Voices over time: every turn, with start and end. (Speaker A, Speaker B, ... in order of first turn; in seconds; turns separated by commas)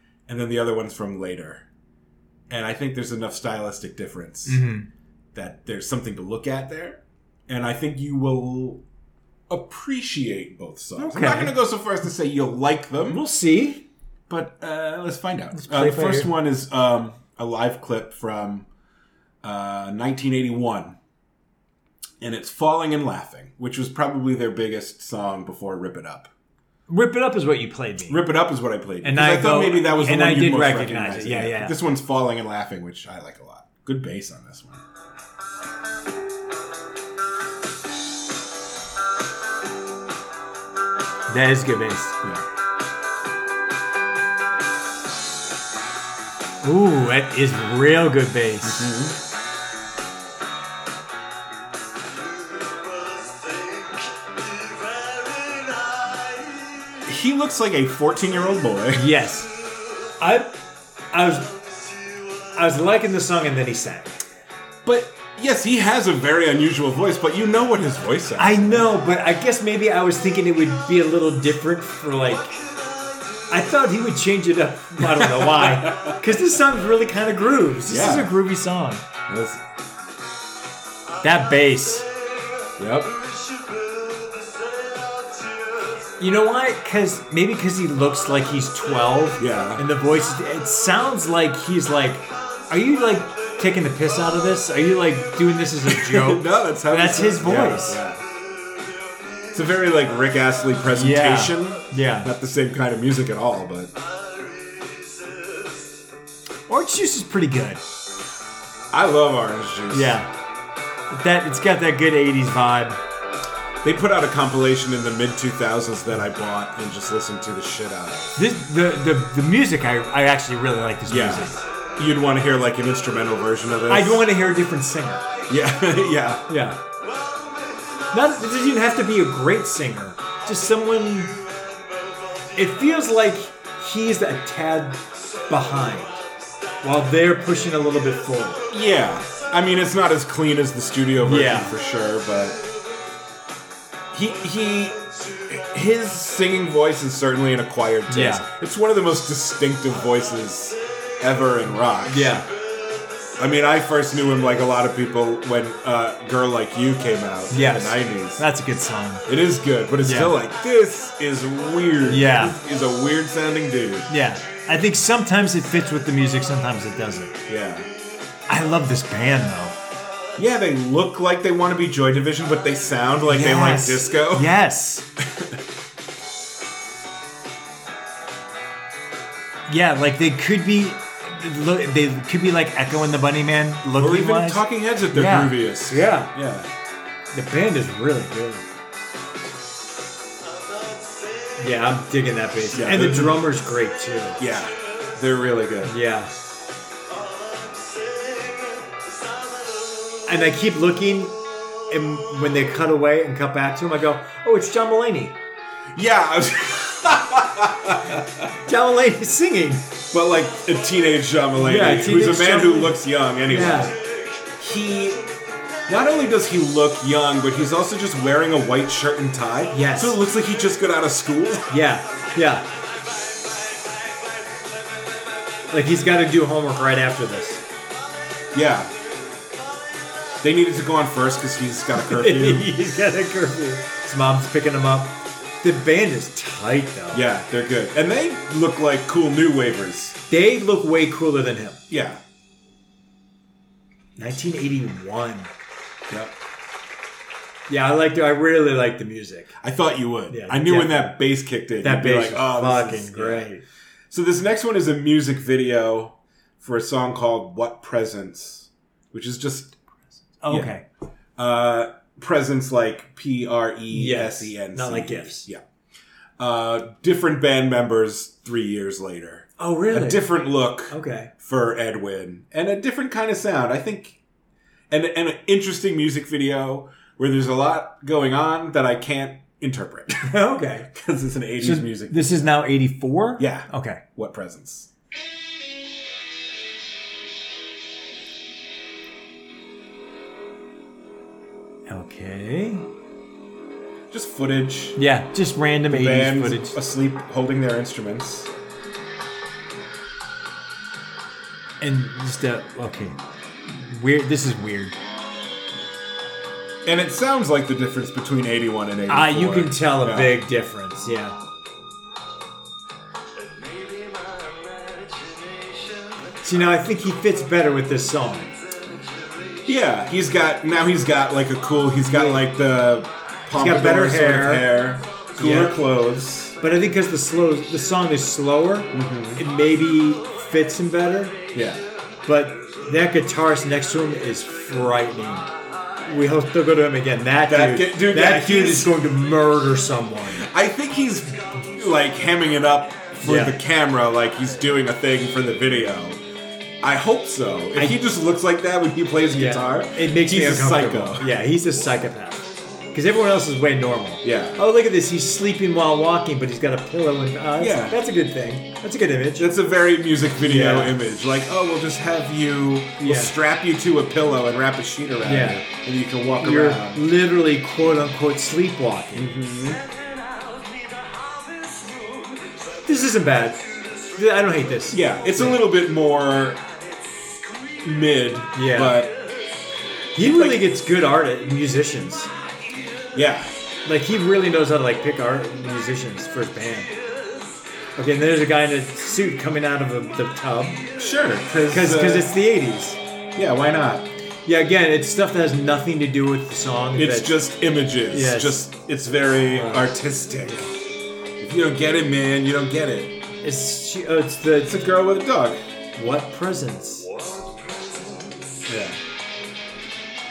Speaker A: 0.3-1.6, Speaker A: 2.5-4.6, Speaker B: 4.5-4.9, Speaker A: 5.3-8.8, Speaker A: 9.5-13.2, Speaker B: 11.0-11.6, Speaker B: 13.1-13.9, Speaker A: 14.3-18.7, Speaker B: 15.5-16.3, Speaker A: 19.4-21.0, Speaker A: 22.2-26.3, Speaker B: 26.9-28.2, Speaker A: 28.1-34.8, Speaker B: 29.0-31.8, Speaker B: 41.3-42.2, Speaker B: 46.6-48.9, Speaker A: 48.6-49.2, Speaker A: 57.0-59.1, Speaker B: 58.9-59.5, Speaker B: 60.2-60.6, Speaker B: 61.1-61.6, Speaker B: 62.5-64.2, Speaker A: 64.8-68.9, Speaker B: 68.4-72.6, Speaker B: 73.5-79.0, Speaker A: 75.0-76.2, Speaker A: 77.9-78.3, Speaker A: 79.3-79.6, Speaker B: 81.2-82.1, Speaker A: 82.8-83.2, Speaker B: 86.2-98.0, Speaker A: 89.4-89.8, Speaker A: 95.8-98.2, Speaker A: 99.5-103.9, Speaker B: 101.0-102.3, Speaker B: 106.7-107.8, Speaker A: 108.9-110.2, Speaker B: 109.9-110.3, Speaker B: 111.1-113.0, Speaker A: 113.8-118.4, Speaker B: 118.4-121.6, Speaker A: 121.1-124.3, Speaker B: 123.9-125.3, Speaker A: 125.5-126.5, Speaker B: 126.5-126.8, Speaker B: 128.1-131.4, Speaker B: 132.6-136.2, Speaker B: 136.8-138.7, Speaker A: 138.7-142.6, Speaker B: 141.2-141.7, Speaker A: 144.1-152.4, Speaker B: 148.1-148.5, Speaker B: 152.1-152.5, Speaker A: 153.4-158.4, Speaker B: 157.5-159.3, Speaker A: 159.3-164.1, Speaker B: 160.0-160.3, Speaker B: 162.1-162.6, Speaker B: 164.1-167.4, Speaker A: 167.5-167.9, Speaker B: 168.5-169.8, Speaker A: 170.4-174.5, Speaker B: 173.3-175.1, Speaker B: 179.7-186.3, Speaker A: 183.9-186.7, Speaker B: 187.3-188.7, Speaker B: 191.6-194.4, Speaker A: 192.7-193.5, Speaker A: 194.4-196.0, Speaker B: 195.8-196.3, Speaker B: 200.3-205.4, Speaker A: 205.9-208.5, Speaker B: 208.7-209.9, Speaker A: 210.1-214.0, Speaker B: 211.6-213.9, Speaker A: 214.6-215.2, Speaker A: 215.9-221.8, Speaker B: 219.7-220.2, Speaker B: 221.7-222.7, Speaker B: 225.7-227.6, Speaker A: 228.5-228.9, Speaker A: 230.4-232.7, Speaker B: 231.9-237.2, Speaker A: 237.1-240.2, Speaker B: 240.3-241.8, Speaker A: 241.9-242.2, Speaker B: 244.2-245.5, Speaker A: 246.1-246.4, Speaker B: 247.7-249.5, Speaker A: 249.6-253.5, Speaker B: 250.3-251.2, Speaker B: 251.8-253.6, Speaker A: 254.1-259.8, Speaker B: 260.4-260.9, Speaker A: 260.5-260.7, Speaker A: 261.4-265.6, Speaker B: 263.9-265.5, Speaker A: 266.4-274.2, Speaker B: 269.6-270.3, Speaker B: 270.9-271.3, Speaker A: 274.9-282.6, Speaker B: 280.3-280.9, Speaker B: 281.6-284.0, Speaker A: 283.4-284.9, Speaker B: 291.9-292.9, Speaker A: 294.1-295.0, Speaker B: 295.0-296.8, Speaker A: 295.9-298.5, Speaker B: 301.8-305.0, Speaker A: 306.9-310.4, Speaker B: 309.1-311.4, Speaker B: 316.4-318.5, Speaker A: 319.6-326.6, Speaker B: 322.1-322.5, Speaker B: 323.5-324.7, Speaker B: 325.4-325.8, Speaker B: 326.6-331.4, Speaker A: 328.9-329.4, Speaker A: 331.5-331.8, Speaker B: 332.3-335.5, Speaker B: 336.0-340.5, Speaker A: 337.5-338.9, Speaker A: 340.4-346.2, Speaker B: 343.2-343.6, Speaker A: 346.8-351.4, Speaker B: 349.3-359.5, Speaker A: 354.2-354.6, Speaker A: 357.6-358.0, Speaker A: 359.4-367.0, Speaker B: 360.4-361.0, Speaker B: 363.0-363.4, Speaker B: 365.2-365.6, Speaker B: 366.4-369.4, Speaker A: 369.1-369.9, Speaker B: 372.9-375.6, Speaker A: 374.9-376.6, Speaker A: 377.8-379.2, Speaker B: 378.5-379.0, Speaker B: 380.1-382.3, Speaker A: 380.2-380.6, Speaker A: 383.1-383.5, Speaker B: 383.9-386.9, Speaker B: 388.0-390.9, Speaker A: 391.0-392.3, Speaker B: 391.7-393.0, Speaker A: 393.4-394.1, Speaker B: 394.4-397.4, Speaker A: 397.0-400.7, Speaker B: 398.1-398.7, Speaker B: 399.6-399.9, Speaker A: 401.4-403.2, Speaker B: 403.4-404.8, Speaker A: 404.6-405.6, Speaker B: 406.0-407.1, Speaker A: 408.7-409.0